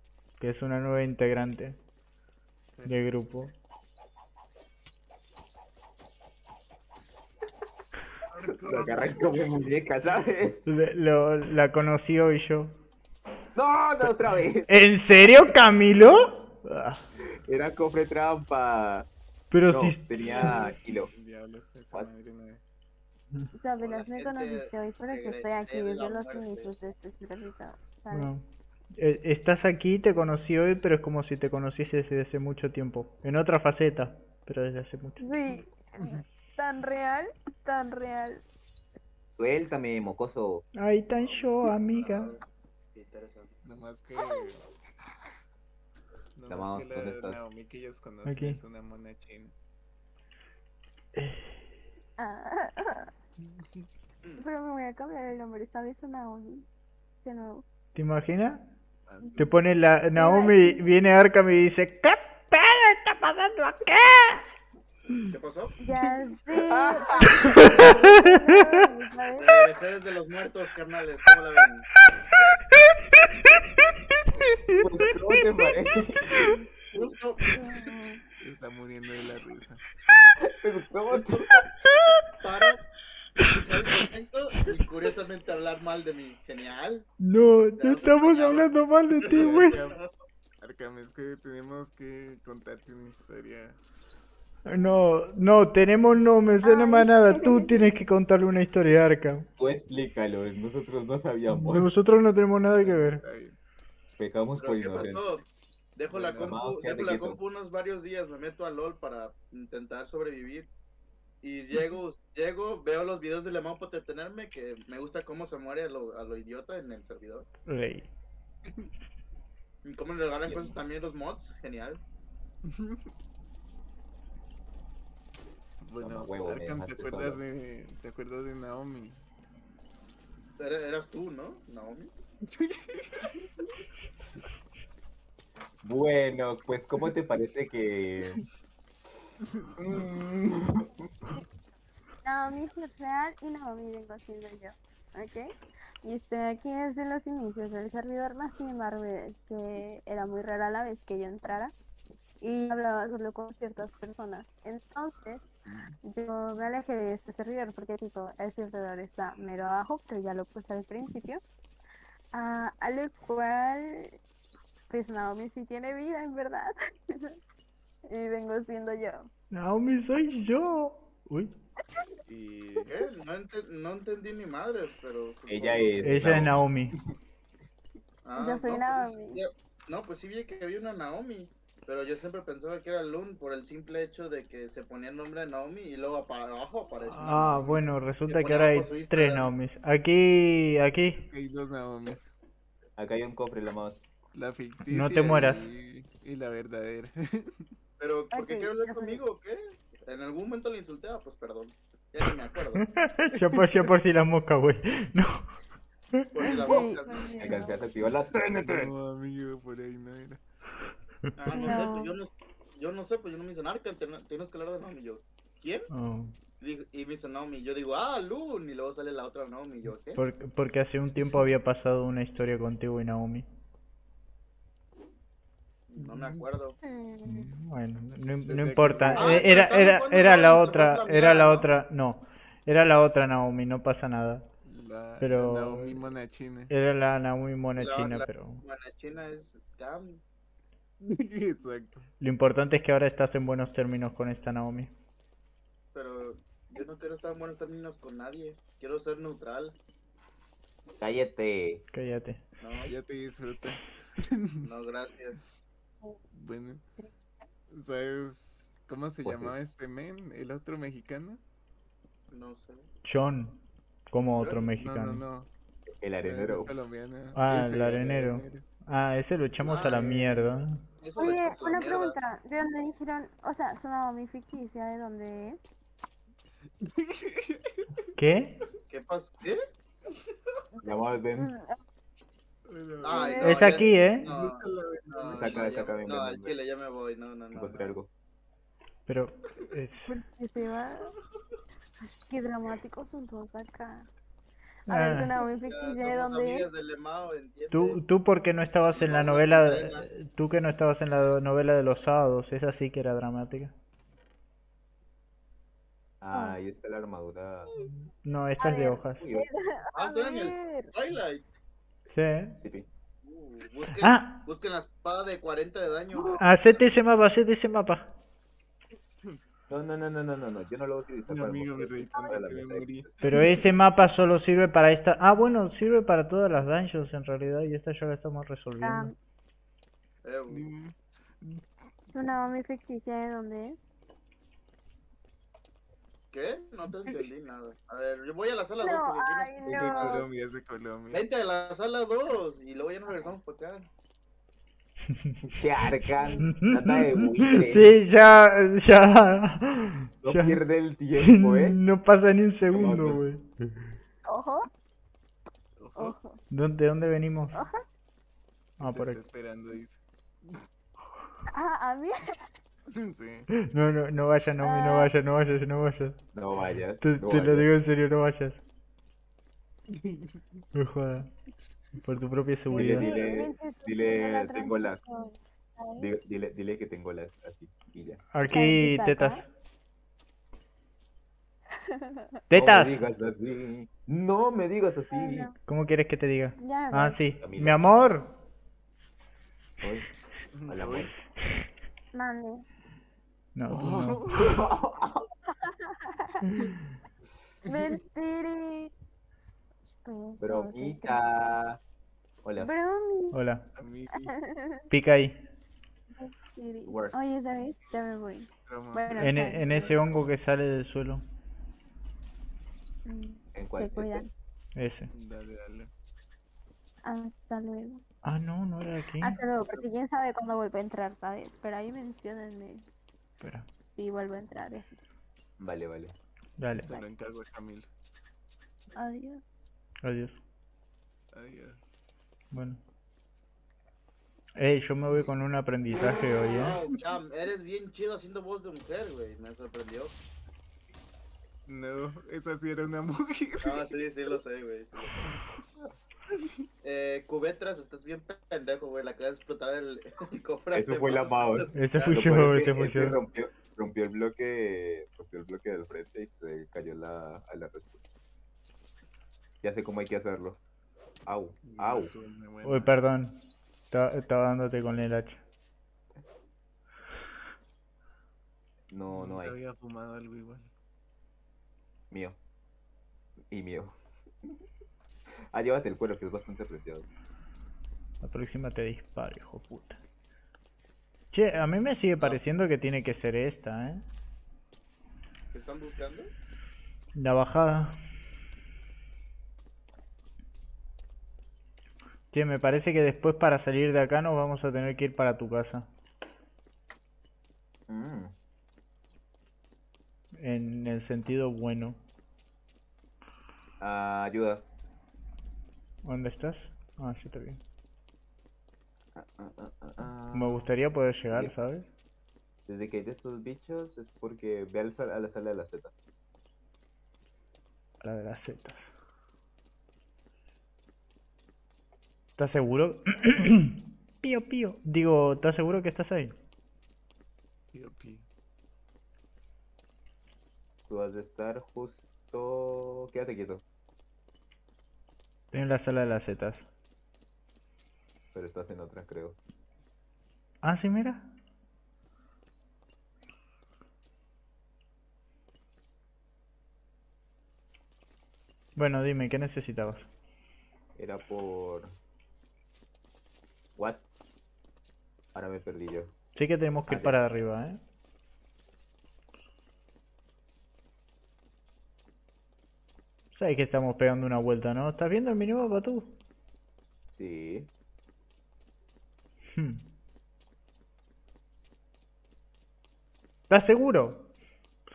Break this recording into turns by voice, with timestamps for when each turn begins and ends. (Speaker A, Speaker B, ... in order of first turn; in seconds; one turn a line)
Speaker A: 0.4-1.8
Speaker B: 2.7-3.0
Speaker A: 2.9-3.5
Speaker B: 8.3-9.7
Speaker C: 8.5-10.7
Speaker A: 10.7-12.8
Speaker C: 13.5-14.7
Speaker A: 14.7-17.0
Speaker C: 17.4-19.1
Speaker A: 19.5-20.7
Speaker C: 19.7-21.1
Speaker B: 20.2-22.6
Speaker D: 23.5-28.3
Speaker E: 23.8-26.7
Speaker A: 28.1-35.2
Speaker D: 35.2-38.4
Speaker C: 39.4-40.6
Speaker A: 40.7-42.4
Speaker E: 41.2-42.4
Speaker E: 42.9-43.5
Speaker B: 43.6-44.6
Speaker D: 44.2-44.5
Speaker B: 46.3-49.5
Speaker C: 46.5-47.5
Speaker A: 48.2-48.6
Speaker A: 51.1-51.6
Speaker D: 52.2-53.1
Speaker B: 53.4-53.9
Speaker D: 54.4-56.6
Speaker D: 57.2-57.6
Speaker A: 57.9-58.7
Speaker B: 59.1-59.7
Speaker A: 59.4-64.5
Speaker D: 60.1-60.9
Speaker E: 65.3-65.8
Speaker D: 65.8-69.7
Speaker C: 66.5-67.7
Speaker A: 67.6-68.8
Speaker E: 69.3-71.9
Speaker B: 74.5-75.2
Speaker C: 74.7-76.5
Speaker E: 76.9-77.6
Speaker D: 77.5-78.2
Speaker B: 78.4-79.8
Speaker C: 80.4-81.5
Speaker E: 81.1-81.5
Speaker E: 82.4-82.8
Speaker E: 83.4-87.1
Speaker A: 87.2-89.8
Speaker E: 87.8-88.6
Speaker E: 89.2-90.0
Speaker B: 89.2-90.0
Speaker B: 90.6-93.8
Speaker A: 94.7-99.5
Speaker D: 96.6-97.7
Speaker C: 99.6-101.9
Speaker A: 101.5-103.2
Speaker B: 102.8-103.5
Speaker C: 104.2-105.2
Speaker E: 104.6-110.7
Speaker B: 106.1-106.6
Speaker C: 106.4-107.4
Speaker E: 111.4-117.5
Speaker A: 117.7-118.1
Speaker E: 119.8-122.0
Speaker C: 120.5-120.7
Speaker B: 122.6-123.1
Speaker B: 125.8-129.2
Speaker C: 126.0-127.4
Speaker E: 130.6-132.1
Speaker B: 132.4-133.8
Speaker C: 135.8-138.4
Speaker B: 139.4-140.2
Speaker C: 139.9-140.9
Speaker D: 142.2-151.7
Speaker D: 152.4-161.4
Speaker D: 162.3-164.2
Speaker D: 164.9-167.4
Speaker D: 168.1-169.3
Speaker A: 169.5-171.5
Speaker B: 172.2-172.9
Speaker E: 172.8-176.0
Speaker C: 175.5-176.6
Speaker A: 176.0-176.9
Speaker E: 178.2-189.5
Speaker D: 178.3-179.4
Speaker A: 187.0-191.2
Speaker B: 191.2-192.2
Speaker C: 193.0-194.1
Speaker B: 194.3-197.7
Speaker A: 194.9-195.7
Speaker E: 198.0-202.9
Speaker D: 198.3-199.2
Speaker A: 202.8-205.5
Speaker A: 206.1-206.6
Speaker E: 206.3-207.6
Speaker D: 206.6-207.8
Speaker C: 207.4-208.9
Speaker B: 208.4-210.4
Speaker E: 211.4-215.9
Speaker D: 211.5-212.2
Speaker A: 215.9-216.4
Speaker E: 216.6-220.2
Speaker A: 220.2-223.4
Speaker E: 225.9-226.8
Speaker B: 226.0-226.4
Speaker D: 226.8-227.5
Speaker A: 227.2-234.4
Speaker B: 228.4-229.3
Speaker D: 229.0-229.4
Speaker E: 229.2-231.7
Speaker B: 234.6-236.7
Speaker A: 235.2-236.1
Speaker A: 236.7-238.6
Speaker E: 237.8-240.2
Speaker B: 241.0-242.1
Speaker A: 242.2-244.9
Speaker E: 245.9-249.8
Speaker C: 251.0-251.8
Speaker A: 251.9-252.4
Speaker E: 252.6-252.9
Speaker B: 252.8-254.7
Speaker E: 254.6-255.4
Speaker B: 256.3-256.8
Speaker B: 257.7-261.4
Speaker C: 259.2-259.5
Speaker E: 262.3-262.9
Speaker A: 263.0-263.6
Speaker A: 264.1-265.2
Speaker E: 264.4-264.7
Speaker B: 264.7-265.5
Speaker C: 266.0-266.9
Speaker B: 266.2-268.6
Speaker A: 267.3-270.8
Speaker B: 269.6-270.5
Speaker E: 269.7-270.1
Speaker E: 271.0-272.1
Speaker D: 271.2-275.7
Speaker B: 276.8-278.1
Speaker A: 278.2-278.6
Speaker E: 278.9-279.6
Speaker C: 280.8-281.5
Speaker D: 281.4-281.8
Speaker B: 282.7-285.8
Speaker E: 283.0-287.9
Speaker D: 283.1-283.5
Speaker A: 283.4-284.3
Speaker C: 285.3-286.6
Speaker C: 287.5-288.1
Speaker A: 289.1-290.1
Speaker D: 290.1-291.1
Speaker D: 292.3-294.1
Speaker A: 294.9-295.3
Speaker D: 294.9-296.7
Speaker E: 295.4-298.0
Speaker A: 297.7-303.7
Speaker E: 298.9-300.1
Speaker C: 306.2-307.8
Speaker D: 306.3-306.6
Speaker A: 308.2-309.2
Speaker D: 308.6-310.9
Speaker C: 309.2-309.4
Speaker E: 309.9-311.4
Speaker A: 312.1-312.5
Speaker C: 312.6-312.9
Speaker E: 313.2-316.9
Speaker A: 313.8-314.4
Speaker A: 316.4-318.1
Speaker C: 319.7-323.2
Speaker B: 321.3-323.6
Speaker A: 323.2-329.1
Speaker D: 328.8-329.1
Speaker E: 330.2-330.7
Speaker B: 330.5-330.9
Speaker D: 332.1-333.9
Speaker E: 336.3-340.1
Speaker D: 338.8-340.2
Speaker B: 339.6-341.2
Speaker E: 341.1-343.9
Speaker A: 345.1-345.4
Speaker C: 345.5-347.9
Speaker D: 346.1-346.5
Speaker A: 346.4-350.6
Speaker C: 350.2-351.8
Speaker A: 351.1-353.7
Speaker C: 352.7-353.2
Speaker D: 354.3-354.7
Speaker B: 355.8-356.1
Speaker D: 355.9-356.4
Speaker A: 356.5-357.6
Speaker D: 357.5-357.8
Speaker A: 358.8-359.2
Speaker B: 358.8-360.6
Speaker D: 361.5-362.2
Speaker B: 362.9-363.5
Speaker A: 363.5-366.2
Speaker D: 364.6-365.1
Speaker C: 366.3-367.7
Speaker A: 367.0-368.6
Speaker B: 369.9-370.6
Speaker A: 370.7-371.3
Speaker A: 372.0-373.3
Speaker D: 372.7-376.1
Speaker C: 372.7-375.0
Speaker C: 376.0-378.2
Speaker A: 378.3-379.5
Speaker D: 378.4-379.4
Speaker D: 381.9-382.2
Speaker A: 382.5-383.0
Speaker C: 382.5-385.5
Speaker D: 385.1-385.5
Speaker A: 385.6-388.3
Speaker D: 386.6-387.2
Speaker C: 387.4-387.8
Speaker C: 389.8-390.1
Speaker B: 390.5-391.1
Speaker C: 390.7-391.1
Speaker D: 392.1-392.6
Speaker A: 393.5-394.6
Speaker B: 393.7-394.7
Speaker C: 394.3-395.2
Speaker D: 395.6-396.5
Speaker D: 397.6-398.9
Speaker D: 400.0-401.2
Speaker C: 400.4-401.8
Speaker C: 402.4-402.7
Speaker D: 402.6-403.4
Speaker A: 403.3-403.7
Speaker B: 403.7-404.4
Speaker D: 404.2-404.8
Speaker A: 404.9-405.4
Speaker D: 406.1-409.9
Speaker C: 406.9-407.1
Speaker B: 408.6-410.0
Speaker A: 409.1-411.2
Speaker D: 413.0-414.3
Speaker C: 413.5-414.3
Speaker A: 414.8-415.1
Speaker B: 415.1-415.9
Speaker D: 417.0-418.0
Speaker A: 418.2-419.4
Speaker D: 419.2-422.9
Speaker A: 423.4-423.7
Speaker D: 423.8-425.0
Speaker C: 425.6-426.1
Speaker A: 426.6-427.0
Speaker B: 426.7-427.9
Speaker D: 428.9-429.4
Speaker A: 430.0-430.4
Speaker B: 431.3-431.8
Speaker A: 432.5-432.8
Speaker A: 434.6-436.8
Speaker E: 436.4-440.1
Speaker B: 441.7-444.0
Speaker E: 443.6-445.3
Speaker B: 445.2-445.4
Speaker E: 446.8-452.2
Speaker C: 450.7-458.0
Speaker A: 451.7-453.2
Speaker C: 459.6-460.6
Speaker C: 461.2-462.1
Speaker B: 461.6-462.9
Speaker A: 462.6-463.4
Speaker A: 463.9-465.4
Speaker C: 468.9-469.6
Speaker B: 469.1-470.7
Speaker C: 472.1-472.4
Speaker C: 473.5-474.6
Speaker C: 475.5-477.1
Speaker A: 478.2-480.0
Speaker A: 481.3-484.0
Speaker E: 485.5-486.3
Speaker A: 487.1-488.0
Speaker A: 492.3-495.9
Speaker C: 497.9-498.3
Speaker A: 500.4-502.0
Speaker C: 503.8-504.6
Speaker A: 506.0-507.6
Speaker C: 509.1-510.7
Speaker A: 510.3-511.9
Speaker C: 511.3-511.5
Speaker C: 512.7-516.1
Speaker A: 518.0-518.9
Speaker A: 522.4-526.4
Speaker B: 527.7-528.2
Speaker C: 530.9-533.6
Speaker A: 535.5-536.6
Speaker C: 538.3-539.4
Speaker A: 540.6-541.3
Speaker A: 548.8-550.1
Speaker C: 550.9-552.0
Speaker C: 553.8-554.0
Speaker C: 555.3-556.1
Speaker A: 556.3-557.8
Speaker C: 556.9-557.2
Speaker A: 563.3-566.2
Speaker C: 567.1-567.7
Speaker A: 569.5-569.9
Speaker A: 573.5-574.3